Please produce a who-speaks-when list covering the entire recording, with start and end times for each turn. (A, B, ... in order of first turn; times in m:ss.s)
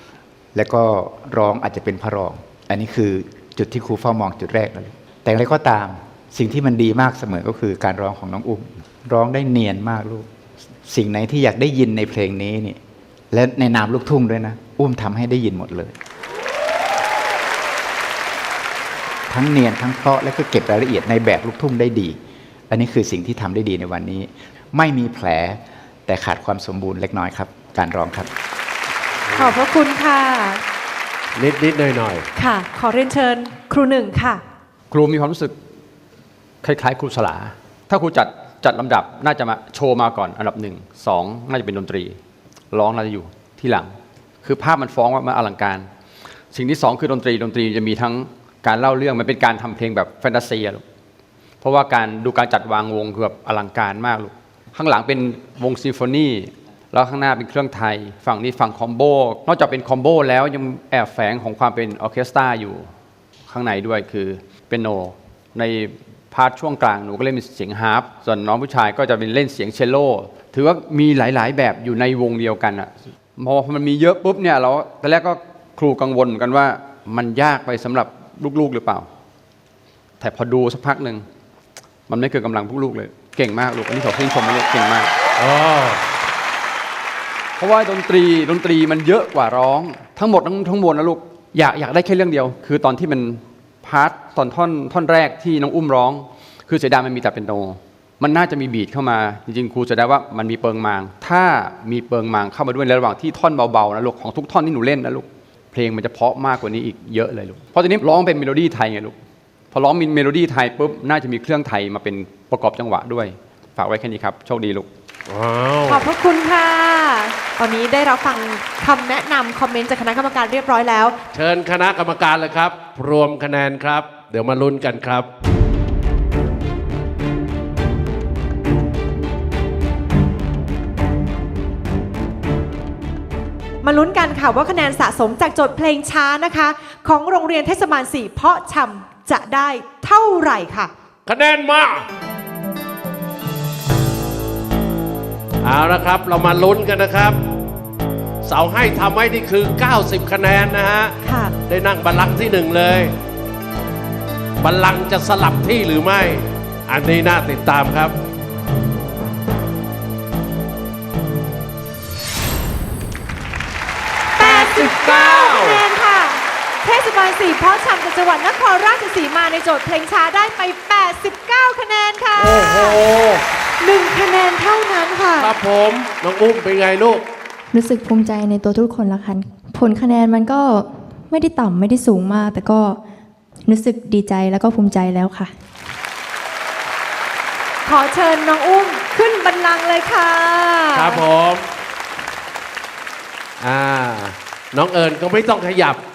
0:00.5-0:10.2 A
0:10.8-0:12.8 A
0:13.3-0:16.0 A
0:19.3-0:22.2 A
0:22.7-0:28.3 A
0:29.3-0:29.6 B
0:29.4-0:30.6 C
0:31.4-0:32.2 B
0:32.4-0:34.4 C
0:34.9-0:35.6 D
0:36.6-0:42.2 D
0:42.7-0:45.9 D
0:46.5-0:50.8 D
0:51.6-1:02.9 D
1:03.5-1:19.1 D
1:20.2-1:21.2 D
1:22.1-1:25.1 D
1:25.4-1:26.0 B
1:27.6-1:49.2 D
1:49.7-1:54.9 D
1:55.3-1:56.0 B
1:55.9-2:01.2 C
2:01.3-2:05.3 B
2:13.8-2:20.9 C
2:21.2-2:22.0 B
2:25.6-2:27.4 B
2:28.4-2:33.1 B
2:31.2-2:31.5 C
2:34.6-2:38.1 B
2:44.4-2:45.8 B
2:44.4-2:53.0 C
2:52.4-2:53.4 B
2:53.8-2:55.5 C
2:55.4-2:57.2 B
2:57.7-3:03.0 E
3:03.6-3:05.5 E
3:07.8-3:11.2 C
3:10.9-3:11.6 B
3:13.6-3:16.0 B